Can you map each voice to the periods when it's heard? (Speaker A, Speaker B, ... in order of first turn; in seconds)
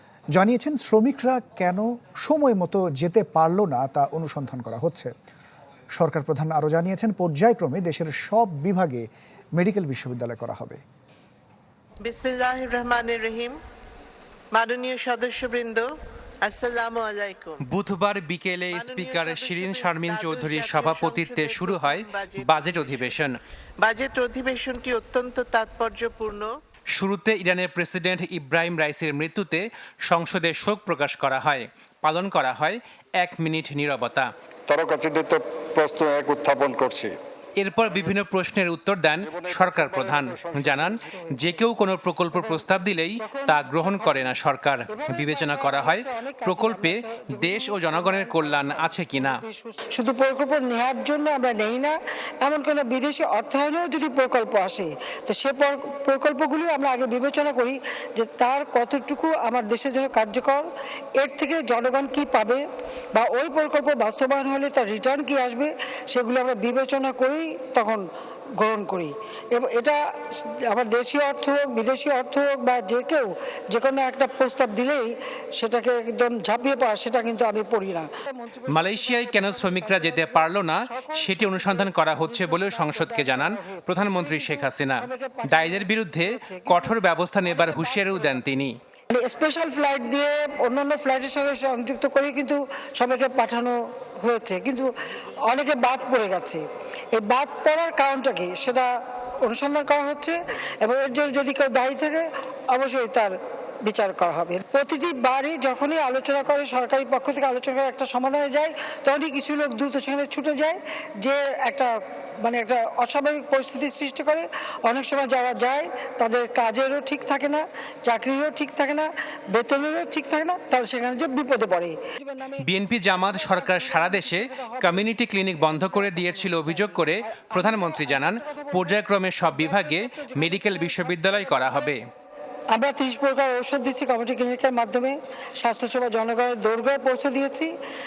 Speaker A: 0.3-5.1, 6.0-9.1, 9.6-10.8
Speaker B: 12.0-13.6, 14.5-15.9, 16.4-17.6, 18.7-23.2, 23.8-26.5
Speaker C: 17.6-23.4, 26.9-34.3, 37.6-49.4, 78.7-88.7, 122.6-132.0
Speaker D: 34.7-37.1, 39.2-40.9
Speaker E: 42.3-42.6, 43.2-44.3, 44.9-68.0, 68.6-94.9, 95.5-122.7, 123.2-131.9, 132.7-137.7